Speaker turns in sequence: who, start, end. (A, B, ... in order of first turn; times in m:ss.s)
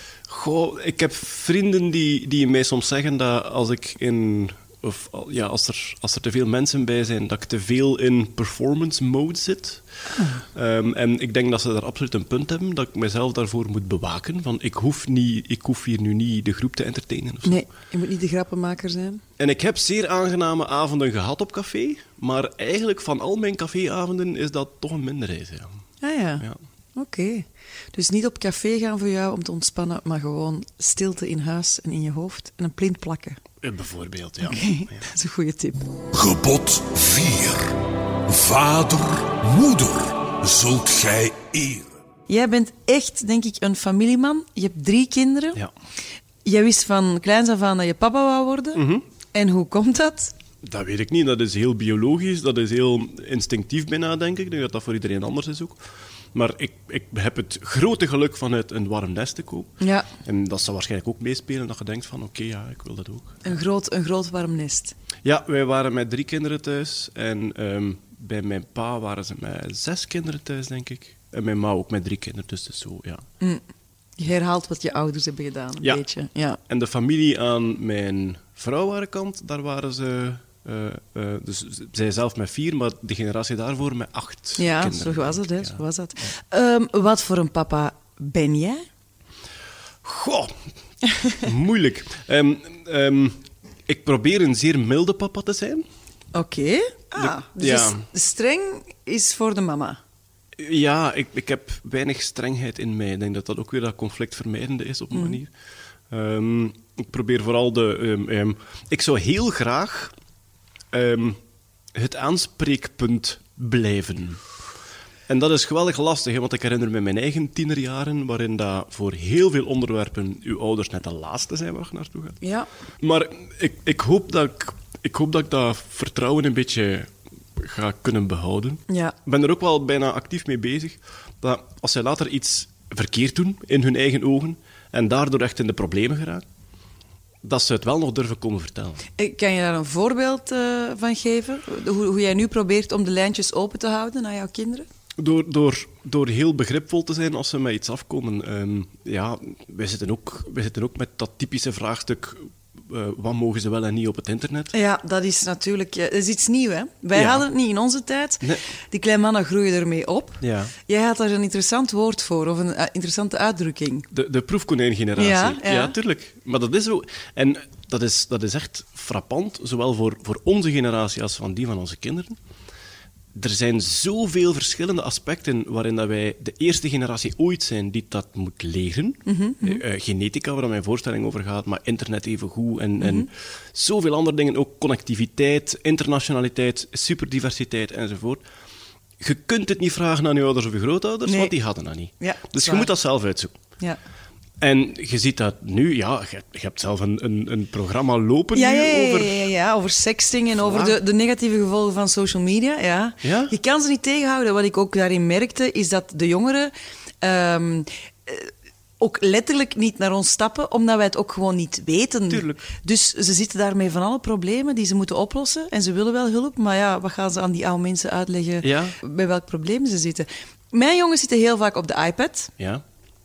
0:00.3-0:09.8 A
0:10.1-0:10.4 B
0:10.5-0:17.6 A
0:17.4-0:19.2 B
0:19.4-0:25.8 A
0:26.0-0:26.4 B
0:27.0-0:33.4 B
0:33.6-0:35.0 A
0:34.4-0:35.9 B
0:36.1-0:41.9 C
0:42.3-0:45.6 B
0:46.4-0:50.3 B
0:48.7-0:49.0 A
0:50.6-0:55.8 A
0:56.3-1:03.4 A
0:59.8-1:00.1 B
1:03.4-1:04.9 B
1:05.2-1:13.2 A
1:14.2-1:16.6 B
1:16.7-1:25.8 A
1:24.6-1:28.8 B
1:30.0-1:30.5 A
1:31.4-1:35.8 A
1:36.3-1:40.0 B
1:37.2-1:38.0 A
1:40.6-1:45.5 A
1:46.1-1:50.1 A
1:50.9-1:51.4 A
1:51.9-1:54.4 A
1:55.3-2:02.4 A
2:02.4-2:02.7 B
2:03.0-2:16.4 A
2:08.9-2:09.1 B
2:17.4-2:19.0 A
2:19.2-2:24.8 B
2:25.2-2:34.7 A
2:34.7-2:44.1 B
2:37.1-2:37.4 A
2:40.4-2:40.7 A
2:44.1-2:52.4 A
2:45.2-2:45.9 B
2:53.3-3:08.4 A
2:59.2-2:59.8 B
3:03.0-3:03.3 B
3:09.2-3:13.5 A
3:11.2-3:11.5 B
3:12.2-3:12.9 B
3:14.6-3:19.5 A
3:18.5-3:42.5 B
3:20.6-3:21.0 A
3:23.2-3:23.5 A
3:32.3-3:32.6 A
3:38.6-3:39.0 A
3:42.6-3:42.8 A